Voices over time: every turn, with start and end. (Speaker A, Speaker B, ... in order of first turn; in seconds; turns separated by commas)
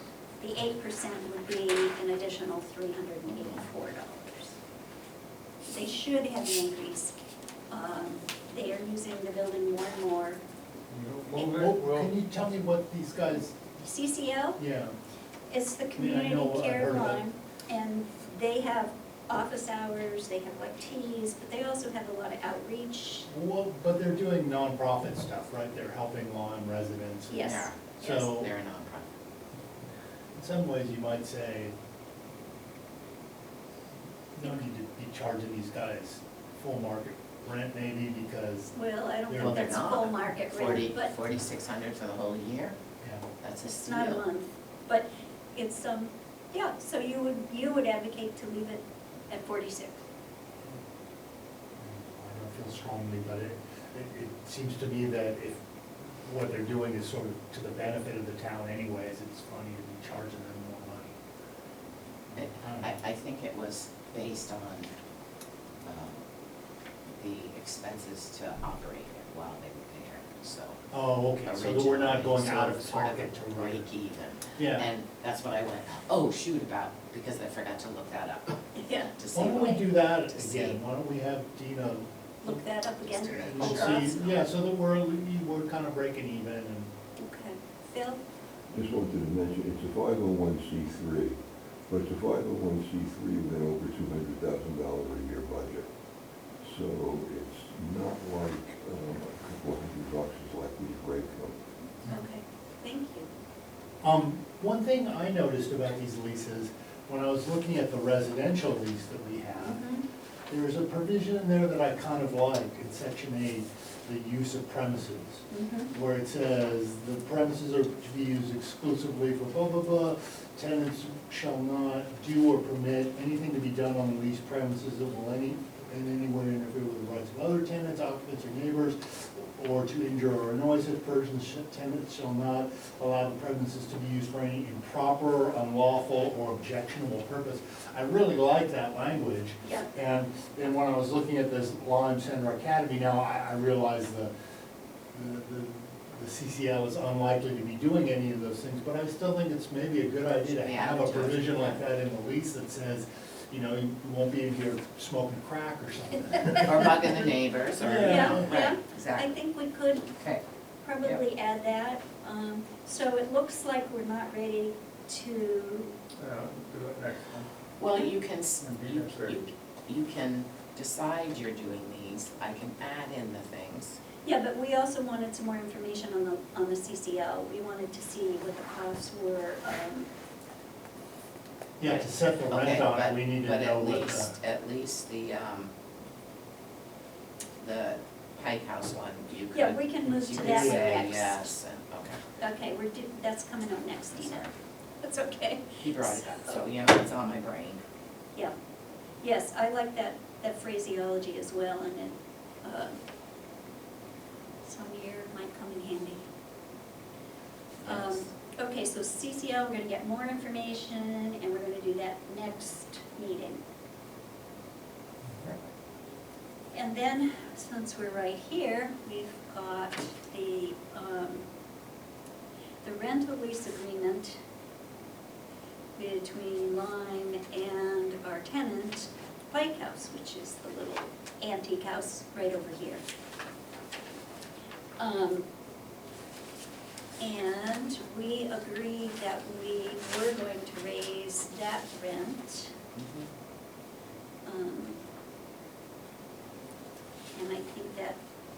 Speaker A: 0.4-4.5, Speaker A: 5.7-7.1, Speaker A: 7.7-10.4, Speaker B: 10.9-12.1, Speaker C: 11.3-13.5, Speaker A: 13.8-14.6, Speaker C: 14.6-14.9, Speaker A: 15.5-23.3, Speaker C: 15.9-17.2, Speaker C: 23.3-28.5, Speaker A: 27.3-28.2, Speaker D: 27.4-29.1, Speaker C: 30.3-31.7, Speaker C: 34.3-38.7, Speaker A: 38.7-41.1, Speaker C: 39.3-39.7, Speaker D: 39.4-42.8, Speaker C: 43.0-43.3, Speaker D: 43.4-44.2, Speaker A: 43.8-50.0, Speaker C: 51.8-61.1, Speaker C: 62.3-62.9, Speaker D: 62.3-64.9, Speaker D: 65.8-66.2, Speaker D: 67.1-70.8, Speaker C: 70.9-73.8, Speaker D: 71.4-78.6, Speaker C: 74.5-74.9, Speaker A: 78.7-79.8, Speaker D: 79.2-80.8, Speaker C: 79.3-82.4, Speaker A: 82.4-84.3, Speaker D: 83.0-84.4, Speaker C: 83.4-86.9, Speaker A: 87.2-88.2, Speaker E: 88.7-91.4, Speaker E: 91.9-95.9, Speaker E: 96.6-101.6, Speaker A: 102.0-103.3, Speaker C: 104.0-109.8, Speaker A: 109.6-110.0, Speaker C: 110.5-144.3, Speaker A: 115.5-115.9, Speaker C: 145.1-157.1, Speaker D: 150.5-151.8, Speaker D: 156.6-159.4, Speaker C: 157.8-158.6, Speaker A: 158.0-160.1, Speaker A: 160.8-165.9, Speaker B: 166.2-167.5, Speaker D: 167.8-174.0, Speaker B: 168.6-169.4, Speaker A: 174.2-180.1, Speaker C: 181.8-184.3, Speaker D: 181.8-185.7, Speaker D: 187.6-192.2, Speaker A: 189.5-191.5, Speaker C: 190.3-191.0, Speaker A: 192.4-194.4, Speaker D: 194.1-194.5, Speaker A: 195.0-196.6, Speaker D: 195.8-197.8, Speaker A: 199.2-202.9, Speaker A: 204.6-206.2, Speaker A: 207.8-213.6, Speaker D: 207.8-208.2, Speaker A: 216.7-221.4, Speaker A: 222.8-224.4, Speaker A: 225.9-233.0, Speaker A: 235.0-235.4, Speaker A: 237.2-242.7, Speaker D: 242.9-243.3, Speaker A: 244.4-245.0, Speaker A: 247.3-248.2